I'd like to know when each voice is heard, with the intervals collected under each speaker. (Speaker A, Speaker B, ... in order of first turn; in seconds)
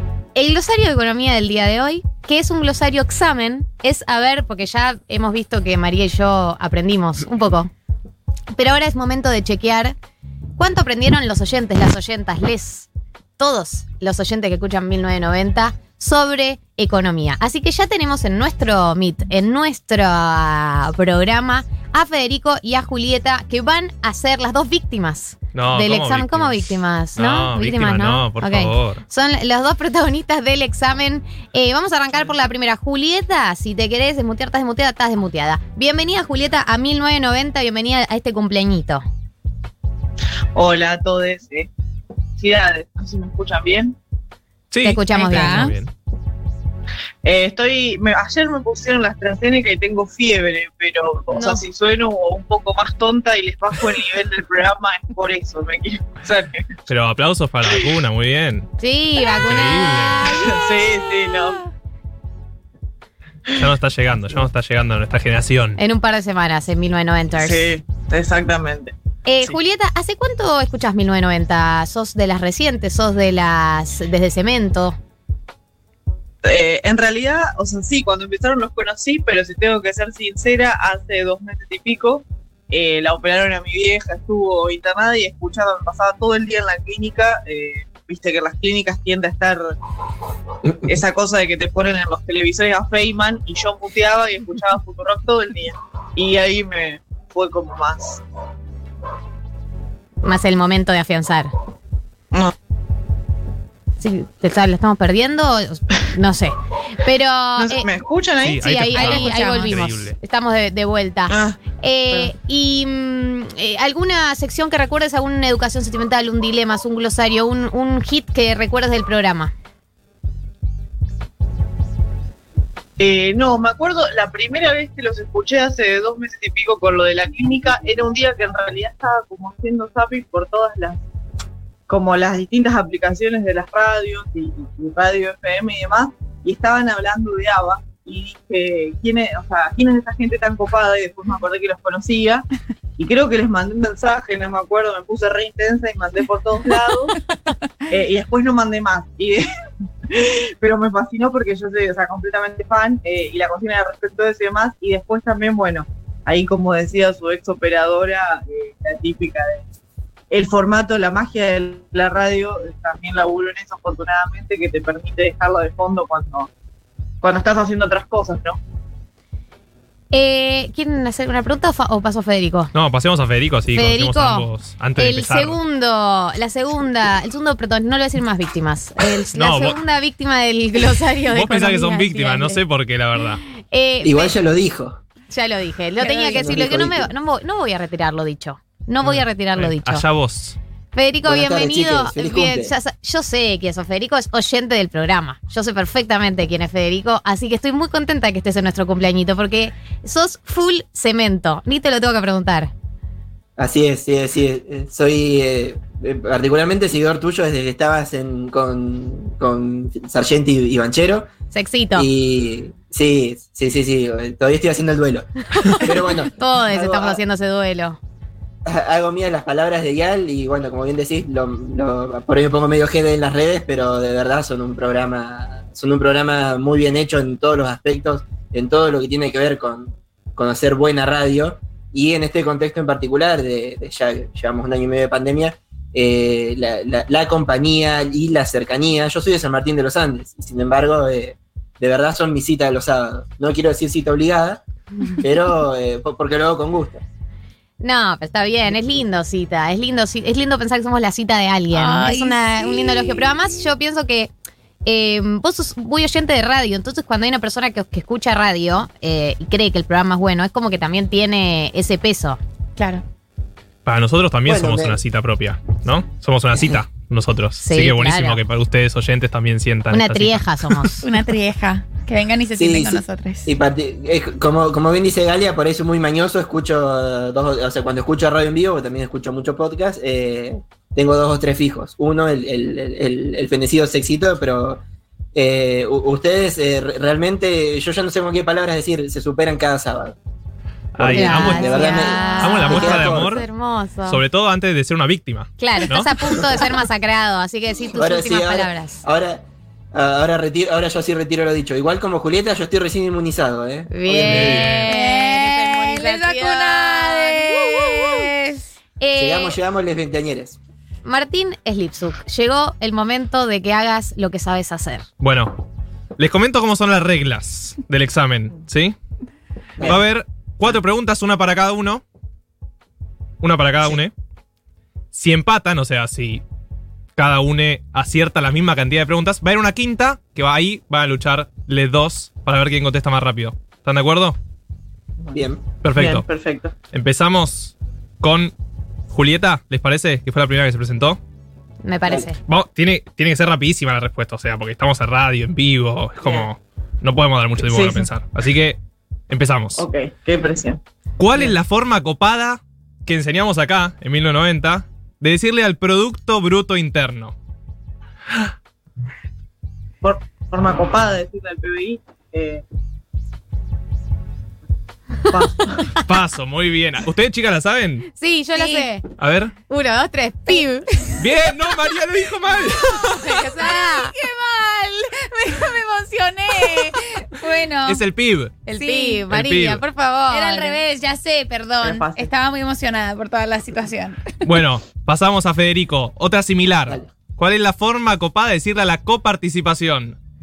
Speaker A: 0.3-7.7, 8.5-9.9, 10.6-39.0, 44.8-45.7, 51.3-51.6, 58.8-60.6, 65.8-67.7, 69.2-75.0, 100.2-101.5, 104.0-107.9, 108.6-119.5, 170.1-172.7, 173.7-182.6, 183.6-184.3, 185.3-190.0, 190.9-202.7, 211.5-212.1, 215.6-218.0, 247.8-254.3, 254.8-262.4, 267.6-268.4, 269.9-271.0, 291.1-294.2, 295.6-299.0, 303.9-308.3, 309.0-309.6, 311.0-315.1, 341.8-342.4, 368.1-369.1, 369.7-370.9, 373.0-374.1, 378.7-380.8
Speaker B: 25.5-29.0, 44.7-45.9, 56.9-58.7, 59.4-60.4, 63.5-65.8, 108.4-110.2, 172.7-175.6, 179.3-179.8, 181.3-183.4, 189.0-190.6, 263.8-270.8, 290.9-293.5, 294.1-296.1, 304.2-304.9, 315.2-315.6, 316.2-318.9, 319.8-322.0, 323.4-324.1, 325.1-326.4, 327.1-334.4, 335.8-336.2, 336.9-338.5, 339.1-341.2, 342.4-348.8, 349.3-349.8, 351.2-357.3, 366.0-368.1, 369.2-369.5, 371.2-373.4, 377.9-378.7, 379.3-379.8, 384.4-390.2
Speaker C: 40.5-41.7, 42.4-44.0, 47.2-56.7, 60.2-61.6, 67.4-68.9, 76.4-89.7, 90.8-98.2, 107.6-108.7, 111.3-111.6, 123.0-131.0, 131.9-142.4, 143.0-147.2, 147.9-149.5, 150.1-159.6, 160.3-166.5, 167.2-168.6, 335.9-336.7, 346.2-346.5, 347.6-348.1, 349.8-350.8, 360.0-362.6, 365.3-366.0, 381.8-382.3
Speaker D: 45.1-45.7, 108.9-109.8, 186.0-186.6, 251.7-253.3, 262.8-263.0, 271.0-273.5, 304.9-308.7, 368.6-368.9, 370.5-371.1, 373.5-378.0, 378.7-379.3, 380.3-384.4
Speaker E: 184.0-185.0, 186.2-187.1, 191.2-192.7, 203.6-211.3, 211.9-217.2, 218.7-244.6, 245.2-247.0, 264.4-265.0, 272.5-284.8, 285.3-290.2, 291.0-293.3, 297.9-304.7, 309.1-310.6, 335.3-335.6